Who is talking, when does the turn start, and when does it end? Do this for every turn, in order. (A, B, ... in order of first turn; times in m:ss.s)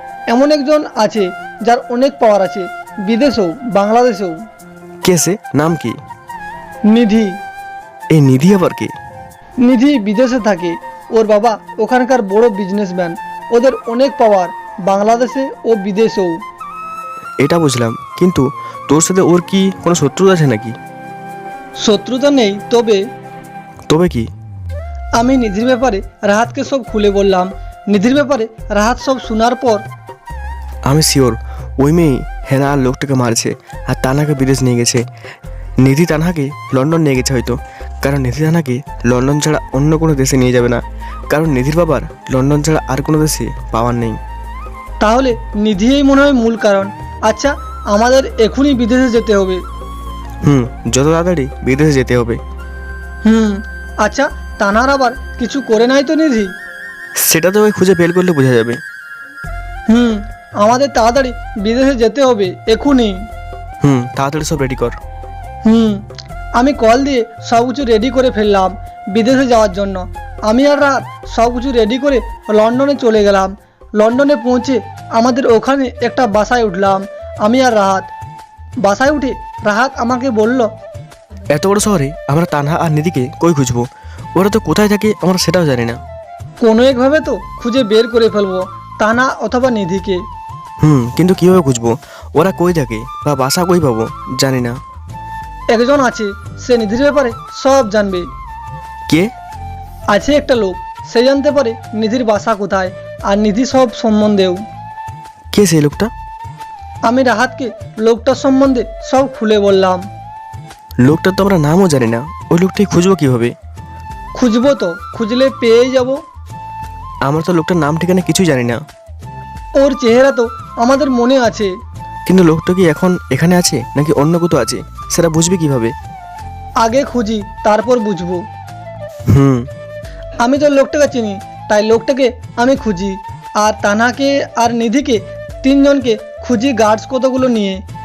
0:00.3-0:04.3 A
0:05.0-0:06.0 B
0:06.9-0:07.3 A
0:08.1-0:08.9 B
0:09.6-0:16.3 A
0:17.4-0:20.7 B
0:21.8-0:23.0 A
0:23.9-0:24.3 B
0:25.2-0:29.8 A
0:30.8-0:35.0 B
0:35.8-0:44.2 B
0:45.0-0:49.6 A
0:50.4-0:52.4 B
0:53.2-0:56.5 A
0:57.2-0:58.8 B
0:59.9-1:03.2 A
1:03.8-1:05.0 B
1:05.6-1:06.0 A
1:06.6-1:18.1 A
1:18.8-1:20.7 A
1:21.5-1:26.0 B
1:26.6-1:30.2 A
1:30.8-1:34.8 B
1:35.7-1:38.2 A
1:40.1-1:44.6 A
1:45.5-1:46.1 B
1:47.0-1:50.0 A
1:51.0-1:53.5 B
1:54.3-1:56.2 A
1:57.2-1:58.8 B
1:59.8-2:01.7 A
2:02.3-2:05.9 B
2:06.8-2:08.4 A
2:09.3-2:09.6 B
2:10.4-2:17.8 A